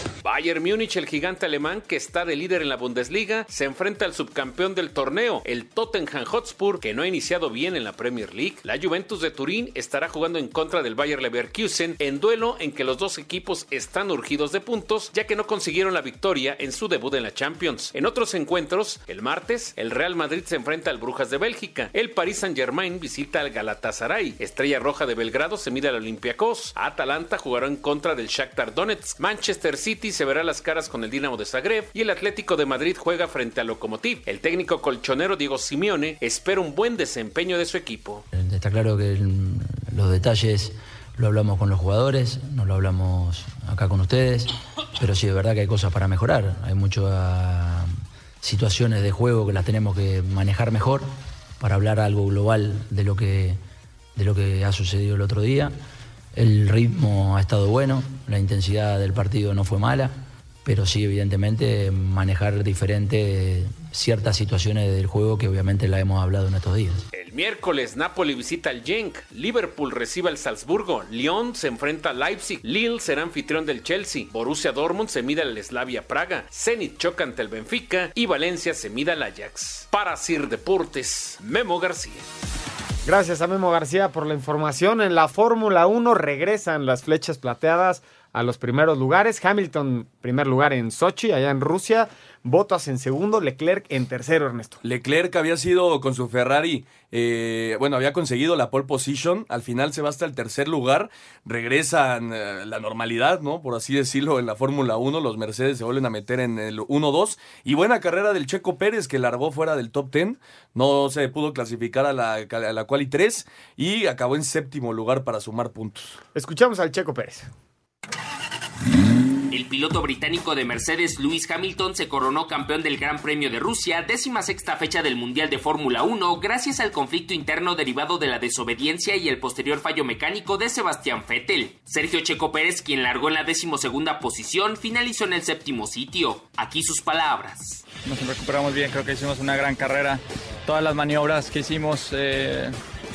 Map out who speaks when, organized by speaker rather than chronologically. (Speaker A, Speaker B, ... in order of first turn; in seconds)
Speaker A: 0.2-38.2, 67.1-82.2
Speaker B: 38.4-44.4, 45.0-47.8, 48.4-51.0, 51.6-53.5, 54.2-55.7, 56.4-60.1, 60.6-67.0
Speaker C: 83.0-94.8, 116.3-117.5
Speaker D: 94.8-116.2
Speaker E: 119.5-137.8
Speaker F: 138.0-142.8